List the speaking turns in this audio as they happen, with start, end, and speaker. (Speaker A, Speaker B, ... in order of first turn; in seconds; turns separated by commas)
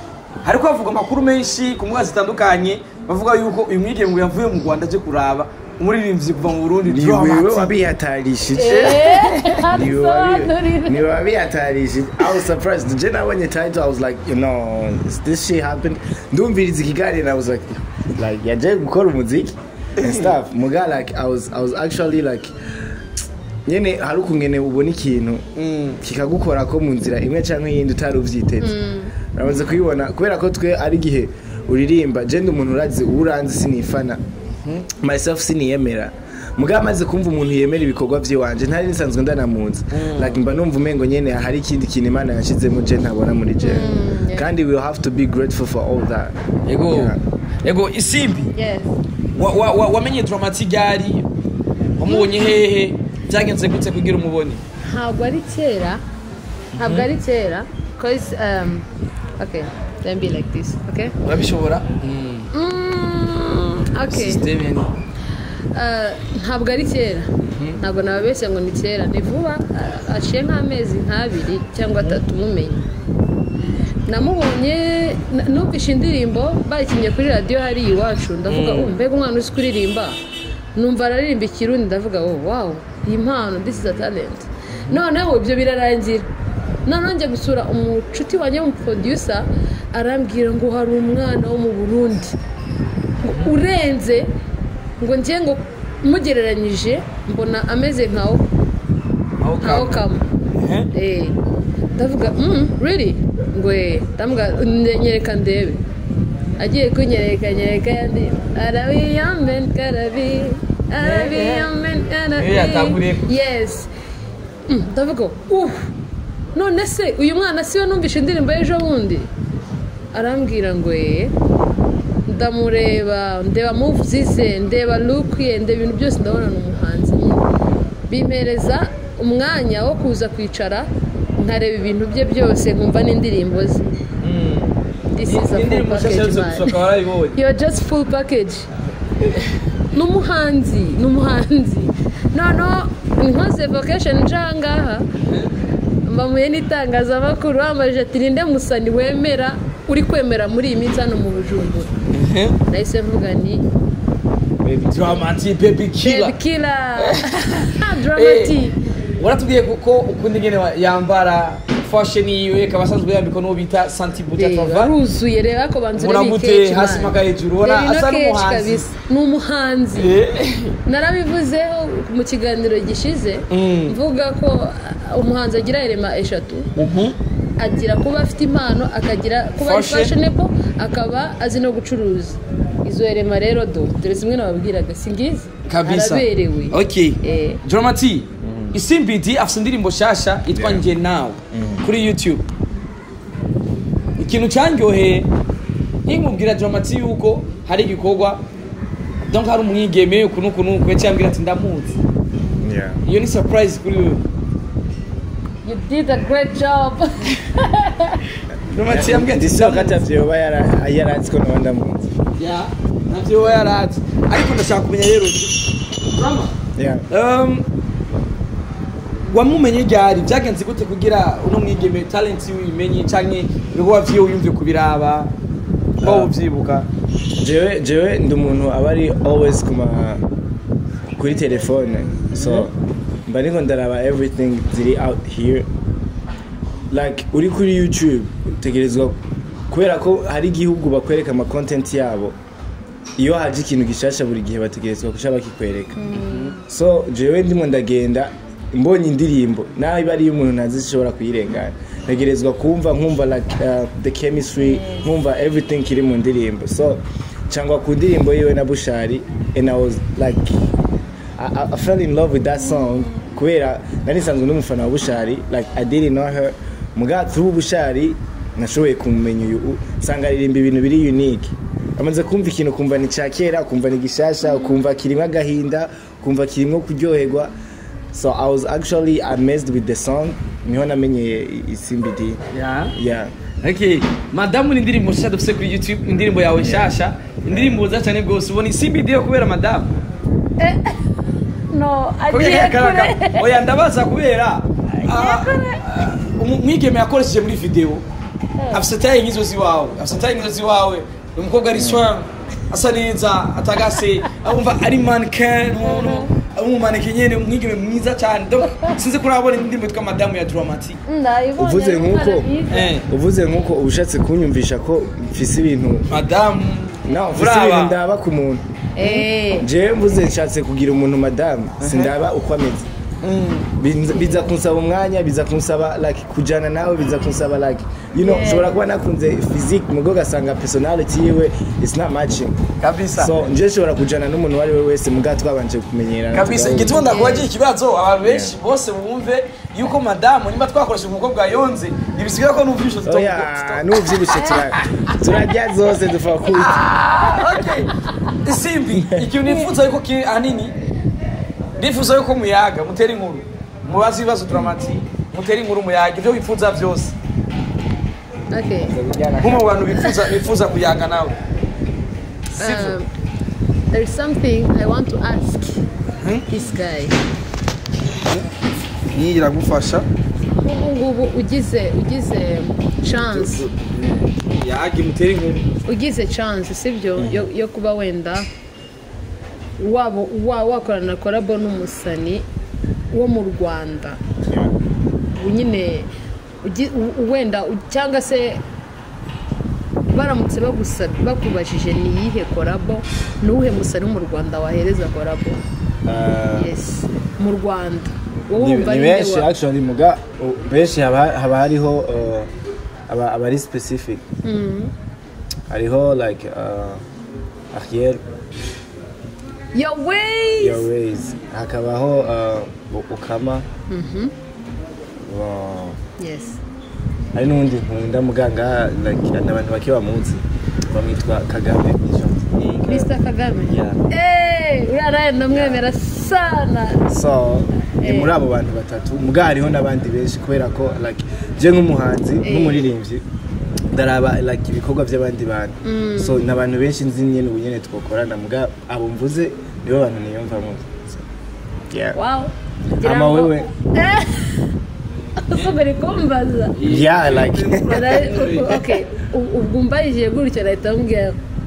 Speaker A: 0.4-7.7, Speaker B: 6.8-22.5, Speaker C: 8.6-11.1, Speaker A: 8.6-9.6, Speaker A: 20.0-20.3, Speaker B: 23.7-25.5, Speaker A: 25.6-26.0, Speaker B: 26.0-28.8, Speaker C: 28.6-29.1, Speaker B: 29.3-34.2, Speaker B: 35.0-46.4, Speaker A: 39.9-40.4, Speaker C: 43.6-44.5, Speaker A: 46.7-48.5, Speaker B: 46.9-47.2, Speaker C: 48.6-48.9, Speaker A: 49.4-51.3, Speaker A: 52.0-54.6, Speaker C: 52.1-52.3, Speaker C: 54.9-56.0, Speaker A: 56.8-57.1, Speaker C: 56.8-58.9, Speaker C: 59.4-61.1, Speaker A: 61.2-62.5, Speaker C: 62.5-64.4, Speaker A: 64.1-64.9, Speaker C: 65.7-67.3, Speaker A: 67.4-67.8, Speaker C: 67.8-72.8, Speaker C: 74.1-80.2, Speaker A: 78.5-79.0, Speaker C: 80.8-86.3, Speaker C: 86.8-92.3, Speaker C: 93.2-94.3, Speaker C: 95.0-98.4, Speaker A: 99.4-100.0, Speaker C: 99.6-100.2, Speaker A: 100.6-100.9, Speaker C: 100.9-101.4, Speaker C: 102.0-105.8, Speaker C: 106.6-113.9, Speaker A: 111.0-111.7, Speaker A: 112.3-113.3, Speaker C: 114.7-115.9, Speaker C: 116.5-119.3, Speaker C: 120.1-121.3, Speaker C: 122.3-127.5, Speaker C: 128.1-133.9, Speaker A: 134.2-137.4, Speaker C: 135.1-136.8, Speaker C: 137.3-138.7, Speaker A: 139.2-139.5, Speaker C: 139.9-145.1, Speaker A: 145.3-145.5, Speaker C: 146.1-151.9, Speaker A: 152.1-152.6, Speaker C: 152.7-153.6, Speaker A: 154.7-156.3, Speaker C: 156.0-158.8, Speaker A: 157.0-158.6, Speaker A: 159.2-164.9, Speaker C: 164.4-170.2, Speaker A: 165.9-168.9, Speaker A: 169.9-170.8, Speaker C: 170.9-176.7, Speaker A: 173.5-174.0, Speaker A: 176.8-177.2, Speaker C: 177.6-187.6, Speaker A: 179.6-180.1, Speaker A: 185.7-192.4, Speaker B: 188.4-188.8, Speaker B: 190.5-190.8, Speaker B: 191.5-191.9, Speaker A: 194.2-195.3, Speaker A: 196.1-198.4, Speaker A: 199.2-202.0, Speaker B: 202.6-203.0, Speaker A: 203.1-204.2, Speaker C: 205.6-208.2, Speaker A: 208.7-210.0, Speaker B: 208.9-212.2, Speaker A: 212.4-216.5, Speaker B: 216.8-217.1, Speaker A: 217.1-217.7, Speaker A: 219.3-225.3, Speaker B: 226.0-226.3, Speaker A: 226.0-226.9, Speaker B: 227.4-230.2, Speaker B: 231.2-232.7, Speaker A: 232.3-232.7, Speaker B: 233.3-235.7, Speaker B: 236.9-242.4, Speaker B: 243.2-246.1, Speaker C: 246.0-246.6, Speaker A: 246.2-246.6, Speaker B: 246.6-260.6, Speaker C: 254.6-255.1, Speaker B: 261.4-277.5, Speaker B: 278.1-282.4, Speaker A: 282.5-282.9, Speaker B: 282.9-283.3, Speaker A: 283.6-289.9, Speaker B: 286.6-286.9, Speaker B: 287.5-287.8, Speaker C: 290.6-291.0, Speaker C: 291.7-293.5, Speaker A: 292.3-298.0, Speaker C: 295.0-295.8, Speaker C: 298.6-298.9, Speaker A: 298.7-311.0, Speaker B: 301.7-302.0, Speaker C: 305.8-306.3, Speaker C: 311.1-312.9, Speaker B: 311.6-312.5, Speaker A: 312.7-313.1, Speaker B: 313.1-316.1, Speaker A: 316.1-318.0, Speaker B: 317.0-322.9, Speaker C: 319.0-319.7, Speaker A: 321.8-322.1, Speaker A: 323.2-323.7, Speaker B: 323.8-332.6, Speaker C: 328.2-328.7, Speaker A: 332.8-333.4, Speaker B: 333.1-337.1, Speaker A: 336.3-345.1, Speaker C: 336.7-337.5, Speaker B: 338.2-338.6, Speaker B: 343.1-347.6, Speaker A: 346.5-347.9, Speaker A: 348.4-350.7, Speaker A: 351.8-357.1, Speaker C: 358.5-358.9, Speaker B: 358.8-359.9, Speaker A: 359.4-361.3, Speaker A: 362.6-363.0, Speaker C: 362.6-363.1, Speaker C: 363.9-365.8, Speaker C: 366.5-367.2, Speaker A: 368.2-368.5, Speaker A: 369.1-370.1, Speaker C: 370.6-373.6, Speaker A: 373.1-375.7, Speaker C: 375.9-378.5, Speaker B: 377.2-377.5, Speaker C: 379.8-382.4, Speaker C: 383.1-384.2, Speaker B: 384.4-384.7, Speaker C: 385.4-386.1, Speaker C: 386.6-388.6, Speaker C: 390.1-395.6, Speaker B: 396.1-396.7, Speaker C: 396.6-399.5, Speaker B: 398.6-402.5, Speaker B: 403.1-404.2, Speaker C: 404.4-404.9, Speaker B: 405.7-407.0, Speaker B: 407.7-408.2, Speaker C: 409.7-410.9, Speaker B: 410.6-413.7, Speaker C: 413.9-414.3, Speaker B: 415.2-416.0, Speaker C: 416.2-416.6, Speaker B: 417.3-423.1, Speaker C: 422.9-427.1, Speaker B: 423.7-424.0, Speaker B: 425.5-425.9, Speaker B: 427.1-433.2, Speaker C: 428.0-428.3, Speaker C: 432.4-432.9, Speaker B: 433.9-441.2, Speaker C: 435.9-436.4, Speaker B: 441.9-442.2, Speaker C: 442.1-444.7, Speaker B: 443.0-443.7, Speaker C: 445.5-446.8, Speaker A: 446.8-448.9, Speaker B: 446.8-448.2, Speaker C: 447.9-451.4